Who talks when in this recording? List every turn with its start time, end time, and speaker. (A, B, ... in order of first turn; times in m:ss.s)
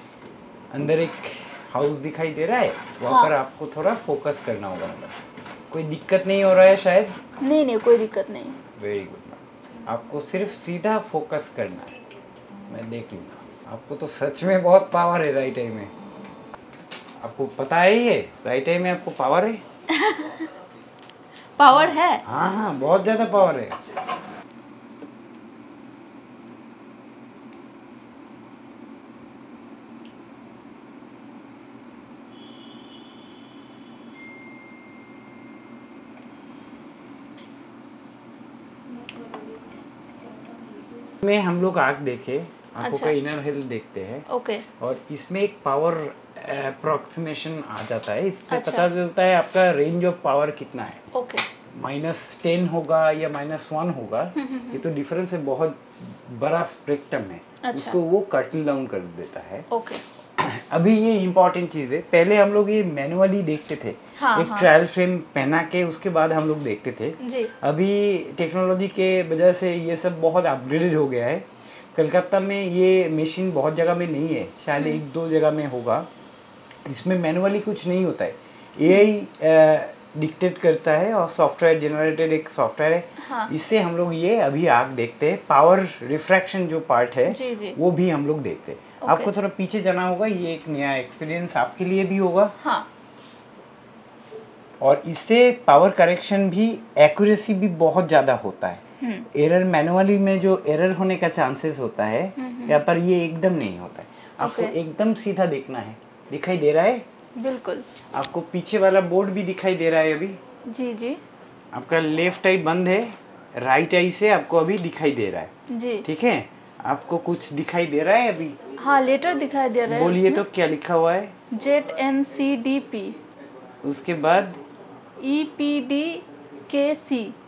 0:00.7-0:05.1 A
0:03.0-0:03.3 B
0:05.7-0:07.2 A
0:07.4-0:08.6 B
0:08.8-0:11.9 A
0:12.7-0:15.9 A
0:17.2-0:19.6 A
0:19.9-0:20.5 B
0:21.6-0:22.2 B
0:22.2-0:23.8 A
0:38.9-0:41.0 B
0:41.2-0:44.2 A
0:42.8-0:43.1 B
0:44.3-0:44.6 B
0:44.8-0:51.0 A
0:48.5-0:48.9 B
0:51.1-0:51.4 B
0:51.7-0:59.7 A
0:54.3-0:54.8 B
0:57.6-0:58.0 B
0:59.7-1:00.0 B
1:00.4-1:16.1 A
1:04.2-1:04.7 B
1:07.2-1:07.5 B
1:16.8-1:32.5 A
1:23.2-1:23.5 B
1:27.3-1:27.8 B
1:29.0-1:29.3 B
1:32.6-1:32.9 B
1:34.8-1:38.8 A
1:39.0-1:39.2 B
1:39.3-1:47.0 A
1:42.4-1:42.8 B
1:44.4-1:44.7 B
1:47.4-1:47.8 B
1:48.1-1:50.4 A
1:50.7-1:51.2 B
1:51.7-1:55.5 A
1:55.7-1:56.0 B
1:56.0-1:58.6 A
1:58.8-2:00.4 B
1:59.9-2:01.3 A
2:01.5-2:03.2 B
2:03.8-2:04.6 A
2:05.2-2:07.3 B